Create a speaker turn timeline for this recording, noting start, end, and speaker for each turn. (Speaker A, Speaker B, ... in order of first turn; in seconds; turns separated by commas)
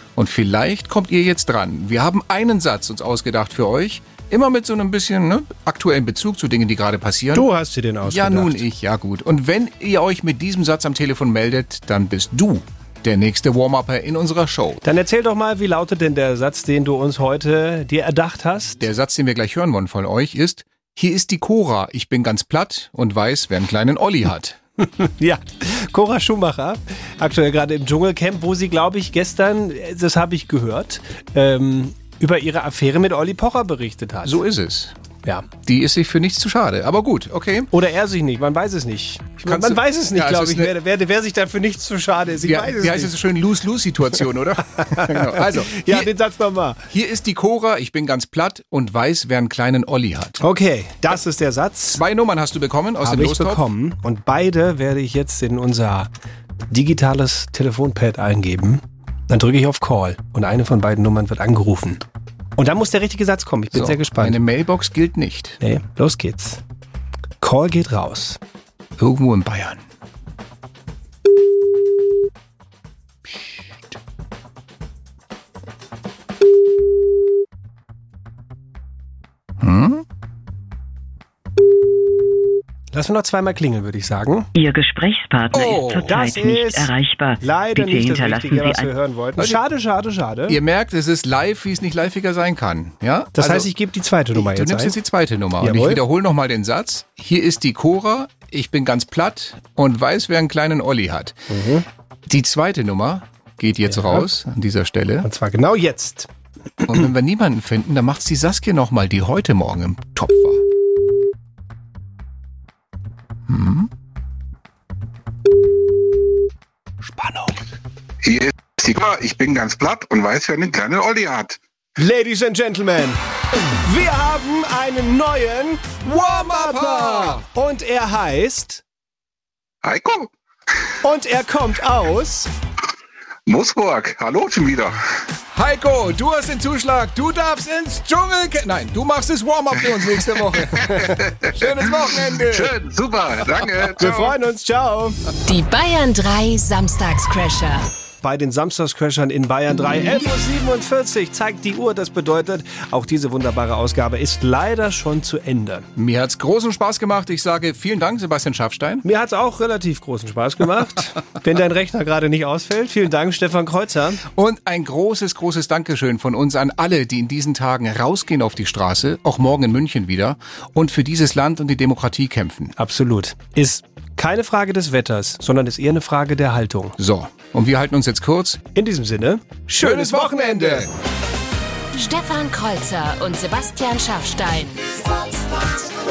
Speaker A: 0.2-7.5, Speaker B: 7.3-8.6, Speaker A: 8.0-14.8, Speaker B: 14.8-18.8, Speaker A: 18.8-24.6, Speaker B: 25.0-34.4, Speaker A: 34.2-35.0, Speaker A: 35.6-37.7, Speaker B: 37.7-43.1, Speaker A: 39.4-40.8, Speaker A: 42.4-46.1, Speaker B: 44.8-46.8, Speaker A: 46.9-50.4, Speaker B: 50.4-52.0, Speaker A: 51.9-53.6, Speaker B: 53.0-56.1, Speaker B: 56.7-62.0, Speaker B: 62.6-64.4, Speaker A: 63.7-65.6, Speaker B: 65.6-66.6, Speaker B: 67.4-68.4, Speaker A: 69.0-69.8, Speaker A: 79.6-80.0, Speaker B: 82.9-84.5, Speaker C: 84.6-88.9, Speaker A: 85.5-86.2, Speaker B: 86.0-90.6, Speaker A: 90.5-93.7, Speaker B: 93.3-95.0, Speaker A: 94.3-101.4, Speaker B: 95.6-96.0, Speaker B: 101.5-101.8, Speaker A: 102.3-105.3, Speaker B: 103.9-104.3, Speaker B: 105.2-106.3, Speaker A: 106.8-110.6, Speaker A: 113.5-113.9, Speaker D: 118.2-121.6, Speaker B: 122.0-123.2, Speaker B: 123.7-128.8, Speaker A: 126.0-127.4, Speaker D: 129.8-130.3, Speaker B: 131.0-132.5, Speaker D: 133.5-135.0, Speaker A: 135.5-142.8, Speaker D: 142.5-144.0, Speaker A: 143.4-144.3, Speaker B: 144.0-145.2, Speaker E: 145.5-147.9, Speaker B: 148.2-155.9, Speaker A: 156.0-159.1, Speaker B: 159.0-164.2, Speaker A: 164.2-172.8, Speaker B: 172.8-177.0, Speaker A: 177.0-178.6, Speaker B: 178.8-180.9, Speaker A: 179.8-180.9, Speaker E: 181.9-185.0